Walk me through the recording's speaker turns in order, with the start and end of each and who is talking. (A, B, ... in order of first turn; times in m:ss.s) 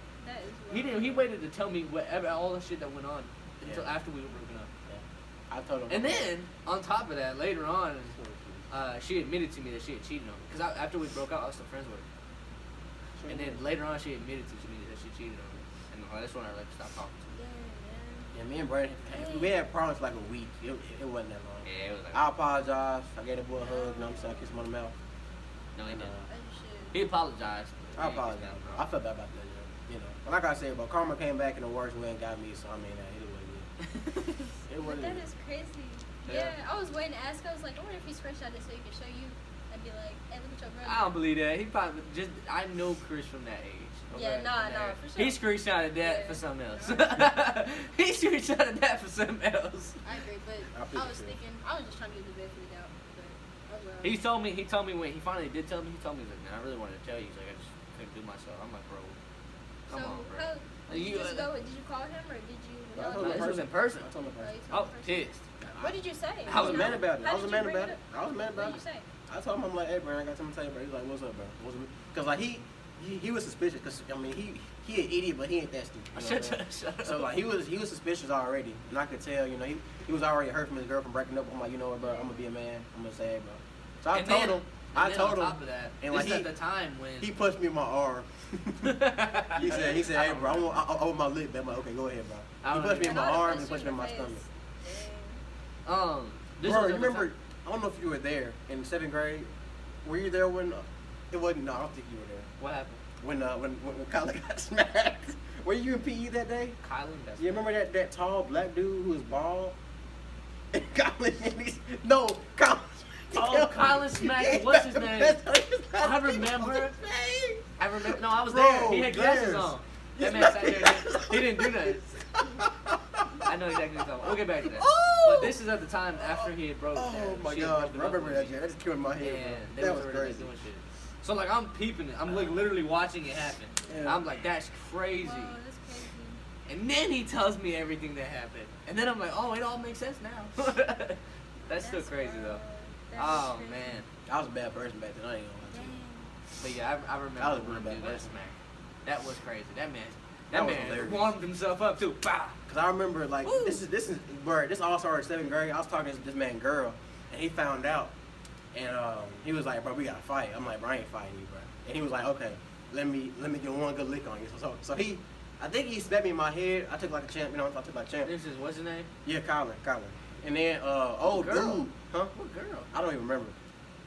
0:00.2-0:01.3 A
0:00.7-0:04.7 B
0:03.6-0:03.9 C
0:04.9-0:06.3 C
0:05.9-0:08.2 B
0:08.2-0:08.6 C
0:08.7-0:12.0 B
0:13.2-0:13.6 C
0:13.3-0:17.3 B
0:17.3-0:18.4 A
0:18.3-0:24.9 C
0:19.1-0:19.6 A
0:21.6-0:22.3 B
0:23.6-0:24.6 A
0:25.7-0:26.1 B
0:25.8-0:26.3 C
0:26.3-0:27.0 A
0:26.9-0:28.8 B
0:28.0-0:33.7 C
0:33.9-0:34.2 B
0:34.7-0:35.3 C
0:34.8-0:41.1 A
0:36.2-0:36.6 B
0:40.8-0:50.0 B
0:44.1-0:45.4 A
0:46.0-0:47.2 A
0:50.0-0:54.2 A
0:50.7-0:51.4 C
0:54.0-0:59.2 B
0:59.9-1:01.5 B
0:59.9-1:03.6 A
1:02.9-1:04.5 C
1:03.2-1:04.1 B
1:04.4-1:09.0 A
1:04.7-1:05.6 B
1:05.6-1:26.5 C
1:06.4-1:07.1 B
1:16.1-1:17.3 B
1:22.0-1:22.4 A
1:24.1-1:27.3 B
1:27.2-1:34.4 C
1:28.8-1:30.8 B
1:29.6-1:30.0 A
1:32.6-1:33.4 B
1:33.0-1:35.4 A
1:35.8-1:37.3 B
1:36.6-1:39.5 C
1:40.0-1:42.5 C
1:42.6-1:43.0 B
1:43.2-1:46.8 C
1:46.8-1:47.6 B
1:47.4-1:49.8 C
1:50.7-2:05.6 C
1:53.3-1:55.4 B
1:56.0-1:56.9 B
1:57.8-2:02.1 B
2:03.4-2:08.5 B
2:06.2-2:10.5 C
2:09.2-2:15.6 B
2:13.9-2:14.3 C
2:15.2-2:16.4 A
2:16.7-2:22.6 B
2:21.7-2:24.0 A
2:23.1-2:24.0 B
2:24.3-2:25.9 C
2:25.7-2:26.3 A
2:26.6-2:32.6 B
2:27.4-2:28.3 C
2:30.5-2:31.3 C
2:32.7-2:38.1 C
2:33.4-2:33.8 A
2:38.7-2:48.3 C
2:48.2-2:49.1 B
2:49.2-2:52.3 C
2:51.2-2:51.8 B
2:52.4-2:52.9 B
2:52.9-2:53.6 C